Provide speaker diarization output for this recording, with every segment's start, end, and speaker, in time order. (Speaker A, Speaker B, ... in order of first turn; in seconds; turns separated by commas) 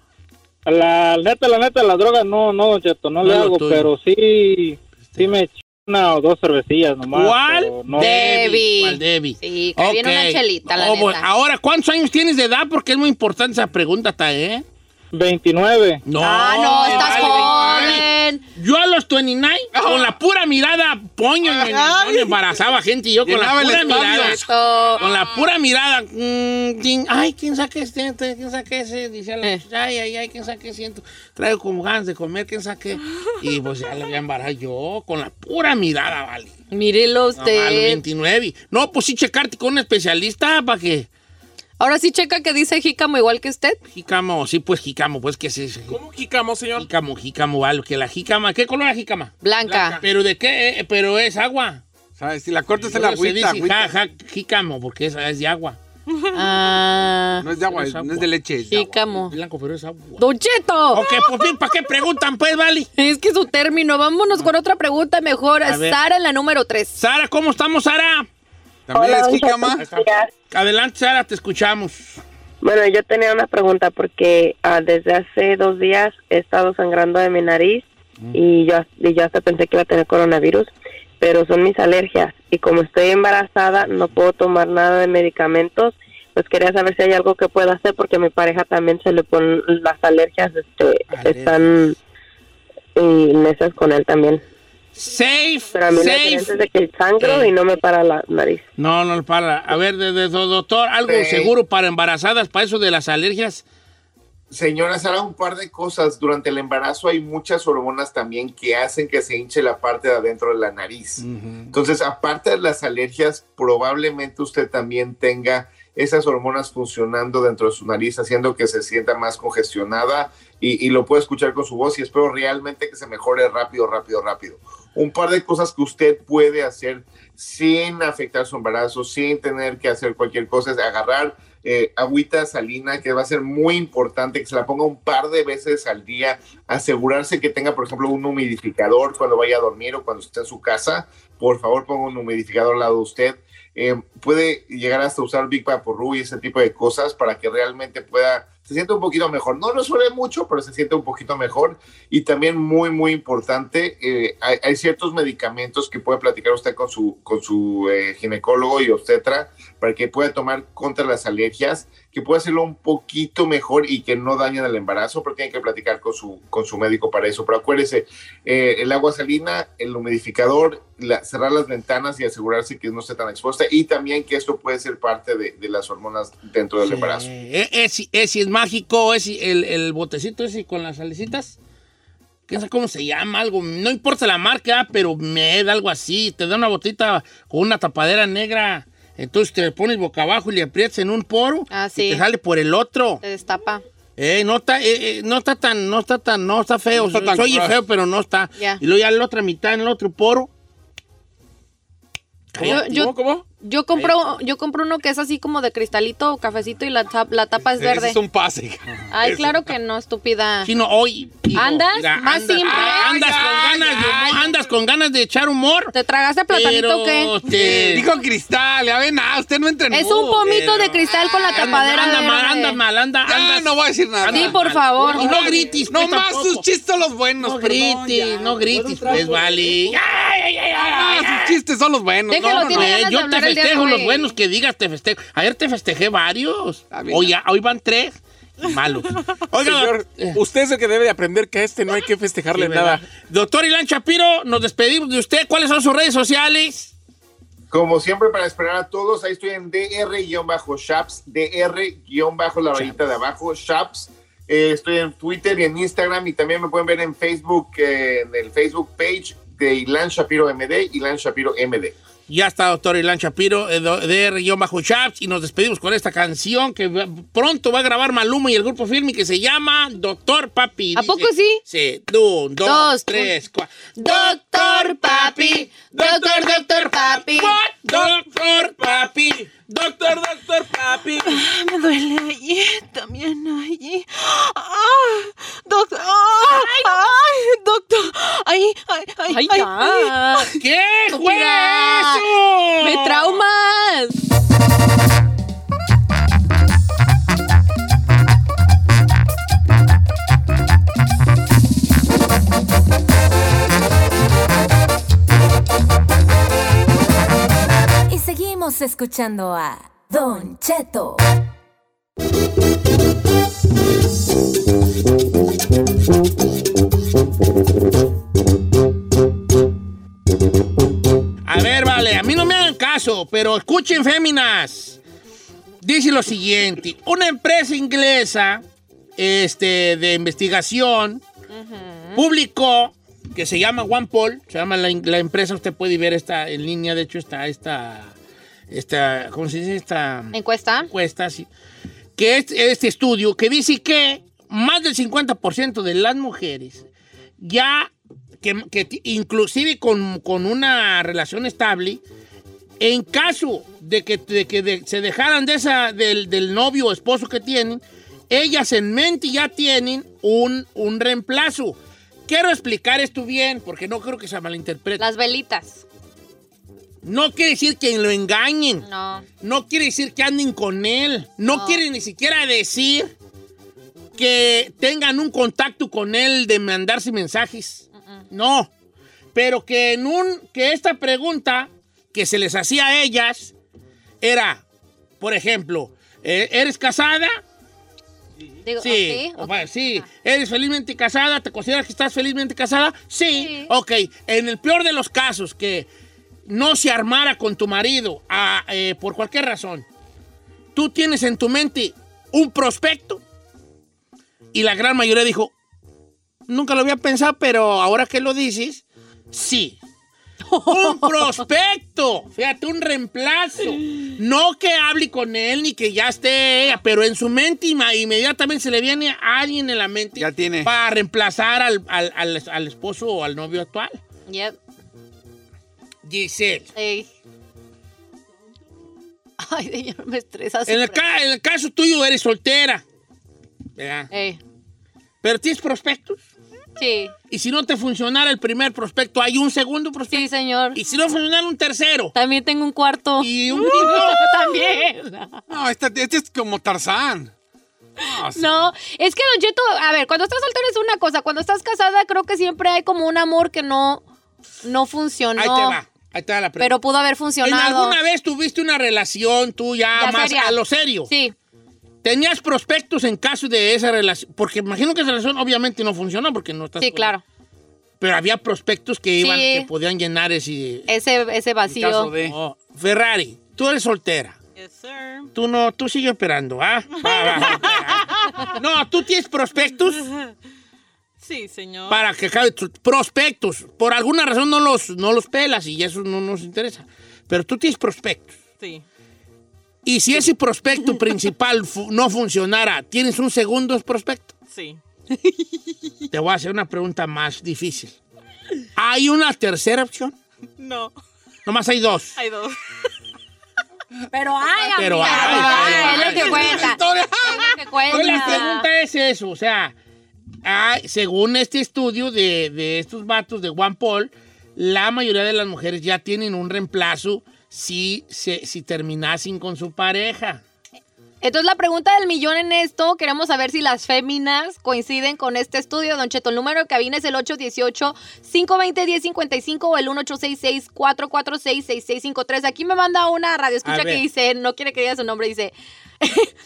Speaker A: 0.7-8.3, Speaker B: 3.2-3.9, Speaker B: 7.1-14.6, Speaker C: 8.0-11.3, Speaker A: 15.1-16.0, Speaker B: 16.1-24.4, Speaker C: 16.2-18.4, Speaker D: 16.8-18.0, Speaker D: 19.7-20.1, Speaker D: 21.5-22.1, Speaker D: 23.2-25.4, Speaker C: 23.9-25.0, Speaker B: 25.0-36.6, Speaker C: 36.7-38.0, Speaker B: 37.3-41.1, Speaker C: 41.8-43.8, Speaker B: 43.9-46.0, Speaker E: 45.9-46.9, Speaker B: 46.8-49.3, Speaker C: 49.4-50.0, Speaker E: 49.7-50.0, Speaker B: 50.0-51.8, Speaker D: 52.1-53.9, Speaker B: 52.8-55.8, Speaker F: 56.1-56.4, Speaker C: 56.3-57.4, Speaker D: 57.4-59.0, Speaker B: 57.6-58.3, Speaker C: 58.7-59.3, Speaker B: 59.3-60.2, Speaker C: 60.2-61.2, Speaker B: 60.9-62.9, Speaker C: 63.0-66.9, Speaker B: 65.6-66.0, Speaker B: 67.0-68.3, Speaker D: 68.9-69.9, Speaker G: 68.9-70.3, Speaker B: 69.8-72.2, Speaker G: 72.6-92.0, Speaker B: 91.1-91.8, Speaker G: 92.9-94.4, Speaker B: 94.9-96.5, Speaker G: 95.7-98.6, Speaker B: 97.2-97.5, Speaker B: 98.8-103.6, Speaker H: 101.1-101.5, Speaker H: 104.5-177.2, Speaker B: 111.2-111.7, Speaker B: 176.8-181.6, Speaker B: 182.5-193.2, Speaker C: 191.7-192.2, Speaker C: 193.2-193.8, Speaker B: 194.2-200.5, Speaker D: 196.9-197.7, Speaker B: 202.5-203.1, Speaker E: 202.6-203.4, Speaker C: 202.6-208.2, Speaker D: 207.7-209.7, Speaker C: 209.1-210.7, Speaker B: 210.6-215.9, Speaker C: 211.5-213.4, Speaker D: 212.6-214.6, Speaker C: 215.9-217.3, Speaker B: 216.5-218.1, Speaker D: 217.4-220.4, Speaker C: 219.9-222.8, Speaker B: 220.4-226.6, Speaker D: 221.3-222.2, Speaker D: 223.2-230.0, Speaker C: 224.3-225.3, Speaker B: 227.4-231.6, Speaker D: 230.7-232.9, Speaker C: 232.3-234.3, Speaker B: 232.3-240.4, Speaker D: 236.9-237.3, Speaker E: 239.6-243.0, Speaker B: 242.5-246.9, Speaker H: 247.7-262.0, Speaker B: 262.3-280.8, Speaker C: 270.9-271.6, Speaker C: 272.6-273.3, Speaker C: 273.9-277.6, Speaker E: 280.1-281.3, Speaker F: 281.2-290.1, Speaker C: 289.3-290.5, Speaker B: 290.5-293.3, Speaker C: 291.1-292.2, Speaker C: 292.8-294.2, Speaker I: 308.1-311.2, Speaker B: 321.4-325.0, Speaker B: 325.8-328.6, Speaker B: 329.2-331.2, Speaker C: 331.5-332.3, Speaker B: 332.1-338.1, Speaker B: 338.7-341.5, Speaker C: 340.3-340.9, Speaker B: 342.1-346.9, Speaker B: 347.4-352.0, Speaker B: 352.8-365.1, Speaker C: 365.0-365.8, Speaker B: 367.0-368.8, Speaker C: 368.8-369.2, Speaker B: 369.4-373.1, Speaker C: 371.5-371.8, Speaker B: 374.1-378.7, Speaker C: 378.0-378.2, Speaker B: 379.3-383.5, Speaker B: 384.2-384.6, Speaker B: 385.2-387.4, Speaker C: 388.6-390.1, Speaker B: 388.8-395.9, Speaker C: 393.3-393.7, Speaker B: 396.4-399.9, Speaker B: 400.7-403.2, Speaker B: 404.5-405.5, Speaker B: 406.5-409.8, Speaker C: 410.5-411.4, Speaker B: 410.6-424.0, Speaker D: 420.2-420.7, Speaker C: 424.3-424.6, Speaker B: 426.0-426.7, Speaker C: 426.8-427.1, Speaker C: 429.4-431.0, Speaker B: 430.6-432.8, Speaker B: 433.8-434.1, Speaker C: 434.1-434.4, Speaker B: 435.2-436.3, Speaker C: 436.8-437.1, Speaker B: 437.3-442.1, Speaker C: 440.1-440.8, Speaker C: 442.1-445.4, Speaker B: 443.2-444.9, Speaker D: 445.5-447.3, Speaker D: 448.0-448.7, Speaker C: 448.3-454.0, Speaker C: 454.6-455.8, Speaker B: 455.4-456.8, Speaker C: 456.6-458.0, Speaker B: 457.4-461.1, Speaker C: 459.9-461.3, Speaker B: 462.0-467.1, Speaker C: 466.8-467.2, Speaker B: 468.0-470.9, Speaker C: 469.2-469.7, Speaker C: 470.9-472.1, Speaker D: 471.7-472.4, Speaker B: 472.2-474.4, Speaker F: 474.5-475.3, Speaker B: 475.3-480.1, Speaker F: 476.9-478.5, Speaker F: 480.0-480.3, Speaker F: 481.2-482.0, Speaker B: 481.9-488.4, Speaker F: 488.6-488.8, Speaker B: 489.8-494.3, Speaker F: 494.5-495.8, Speaker B: 496.1-498.0, Speaker B: 498.8-500.1, Speaker F: 500.6-500.9, Speaker B: 501.4-502.1, Speaker F: 502.1-502.6, Speaker C: 504.1-508.6, Speaker B: 504.8-506.7, Speaker D: 505.0-508.4, Speaker B: 507.9-509.7, Speaker B: 510.4-520.4, Speaker C: 521.2-536.3, Speaker B: 533.6-534.0